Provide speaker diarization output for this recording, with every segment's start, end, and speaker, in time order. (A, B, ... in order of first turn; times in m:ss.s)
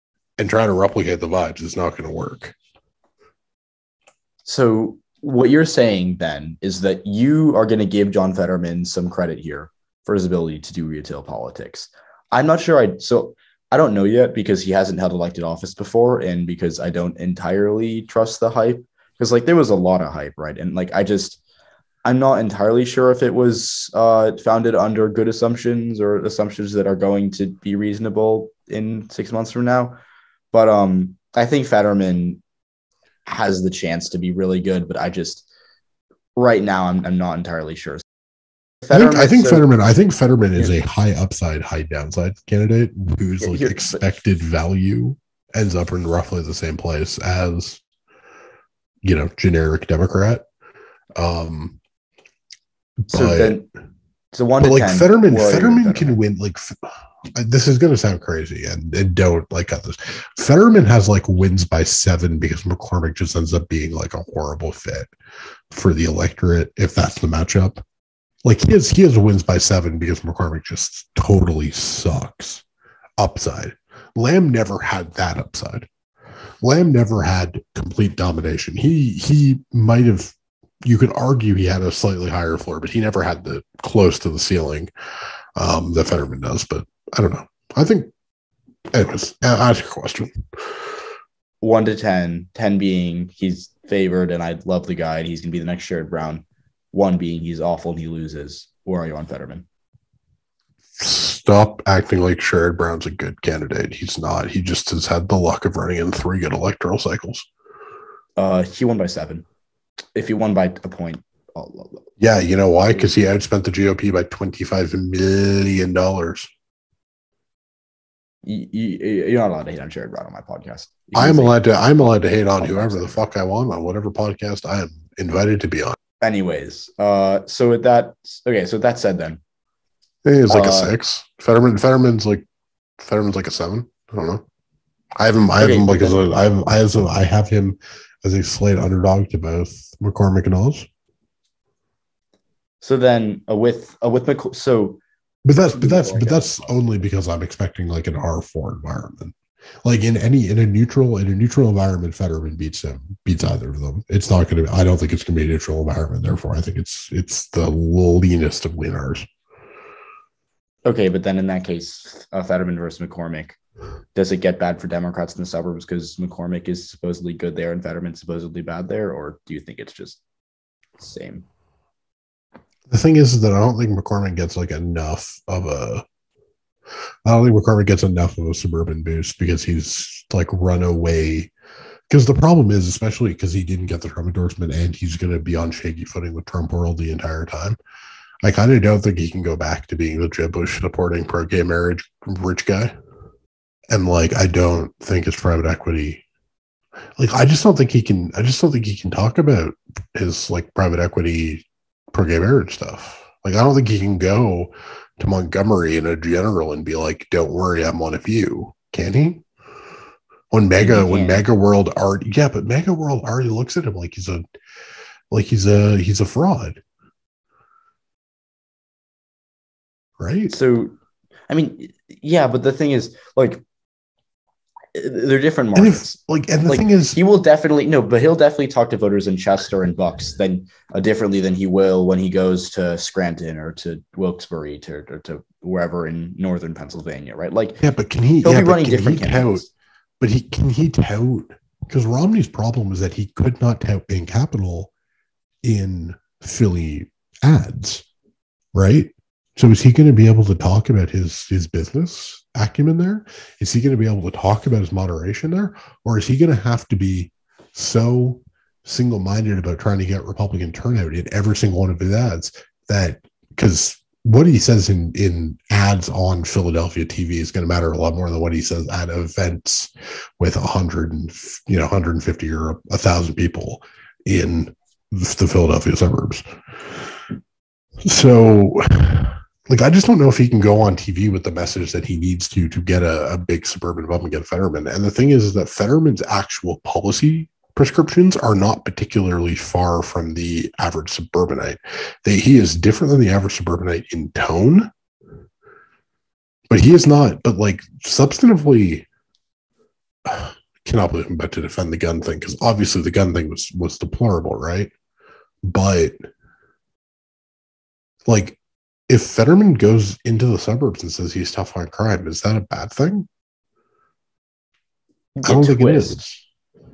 0:00.4-0:02.6 A
0:04.4-0:21.4 B
0:22.0-0:30.0 B
0:30.5-0:32.4 B
0:33.3-0:35.5 B
0:36.4-0:38.0 B
0:38.8-0:39.7 B
0:38.9-0:47.8 A
0:43.4-0:44.0 B
0:49.0-0:50.4 A
0:51.2-0:51.8 A
0:53.1-0:53.6 A
0:53.1-0:53.7 B
0:54.3-0:56.2 B
0:54.6-1:05.1 A
1:05.7-1:07.8 A
1:08.4-1:12.6 A
1:13.2-1:15.9 A
1:16.6-1:20.4 A
1:20.9-1:24.9 A
1:25.6-1:28.1 A
1:28.9-1:30.4 A
1:31.6-1:39.6 B
1:41.0-1:47.5 A
1:48.4-1:49.5 B
1:50.1-1:52.1 B
1:52.2-1:56.5 A
1:58.4-2:01.6 B
2:01.1-2:06.0 A
2:02.6-2:03.2 B
2:06.2-2:09.4 B
2:10.2-2:12.4 A
2:10.5-2:11.0 B
2:13.0-2:14.4 A
2:15.2-2:20.9 A
2:15.6-2:16.2 B
2:22.8-2:25.0 B
2:25.4-2:39.3 A
2:25.6-2:26.7 B
2:40.8-2:43.6 B
2:44.1-2:50.2 B
2:51.0-2:51.4 B
2:52.9-2:56.0 A
2:57.3-3:01.5 A
3:02.1-3:07.8 A
3:08.4-3:12.9 A
3:13.9-3:16.2 A
3:17.2-3:29.4 A
3:30.5-3:34.4 A
3:30.8-3:31.4 B
3:35.3-3:36.8 A
3:40.2-3:40.5 A
3:40.5-3:40.9 B
3:41.5-3:43.6 B
3:44.9-3:46.2 B
3:45.8-3:47.2 A
3:46.7-3:57.8 B
3:57.8-3:59.7 A
3:58.4-3:59.7 B
4:00.2-4:04.9 A
4:05.6-4:08.0 A
4:08.7-4:36.4 A
4:38.0-4:54.9 A
4:56.7-4:59.1 A
5:00.2-5:04.9 A
5:05.6-5:06.2 A
5:08.3-5:08.6 A
5:09.1-5:13.3 A
5:15.4-5:16.2 B
5:15.4-5:16.4 A